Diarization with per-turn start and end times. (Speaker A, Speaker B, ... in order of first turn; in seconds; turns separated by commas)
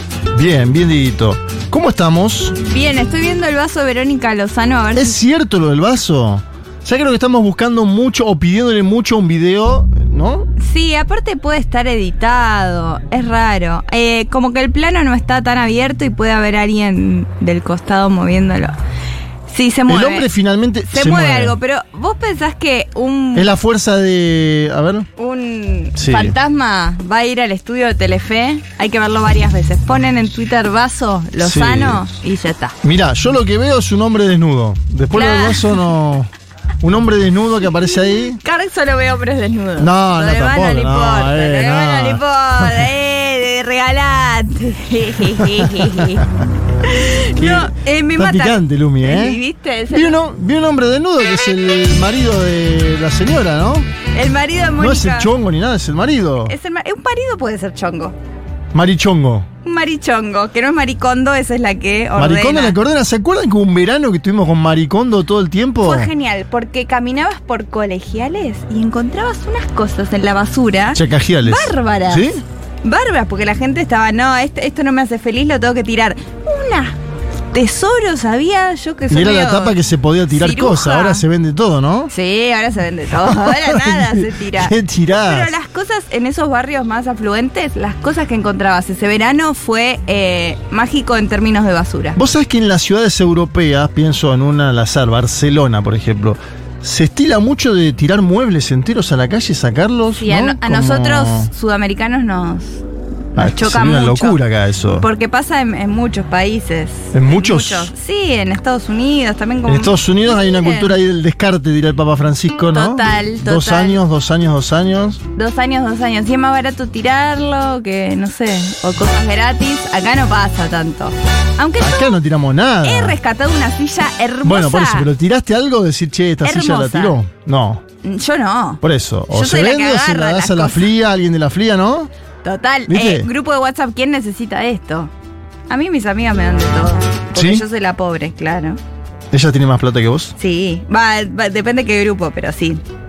Speaker A: 0.3-2.6, Speaker B: 2.6-5.2, Speaker A: 5.0-10.5, Speaker B: 10.6-18.7, Speaker B: 19.5-20.3, Speaker A: 19.9-21.6, Speaker B: 20.9-23.5, Speaker A: 23.4-25.1, Speaker B: 25.2-32.8, Speaker A: 26.0-26.4, Speaker A: 31.4-32.1, Speaker A: 32.8-36.3, Speaker B: 35.1-35.8, Speaker A: 36.8-38.4, Speaker B: 38.4-46.3, Speaker A: 39.8-42.9, Speaker A: 45.4-45.7, Speaker B: 46.8-50.2, Speaker A: 47.4-49.4, Speaker A: 49.9-53.9, Speaker B: 54.1-55.3, Speaker A: 54.8-56.5, Speaker B: 56.5-58.1, Speaker A: 58.7-59.5, Speaker B: 59.6-62.8, Speaker A: 62.2-66.1, Speaker B: 65.8-72.2, Speaker A: 70.9-72.4, Speaker B: 72.8-77.0, Speaker B: 77.5-79.8, Speaker A: 79.1-82.1, Speaker B: 80.3-81.2, Speaker B: 82.1-92.2, Speaker A: 83.2-85.5, Speaker A: 92.2-101.5, Speaker B: 100.2-102.8, Speaker B: 103.3-104.4, Speaker A: 103.4-105.1, Speaker B: 105.0-110.9, Speaker A: 107.1-107.9, Speaker A: 109.7-115.2, Speaker B: 112.7-114.0, Speaker B: 115.4-122.2, Speaker A: 121.8-123.2, Speaker B: 122.8-125.1, Speaker A: 124.4-127.8, Speaker B: 126.4-127.2, Speaker B: 128.0-130.9, Speaker A: 128.8-132.1, Speaker B: 132.4-135.1, Speaker A: 132.9-133.3, Speaker B: 135.7-138.8, Speaker A: 137.3-137.6, Speaker A: 139.3-140.3, Speaker B: 140.4-142.8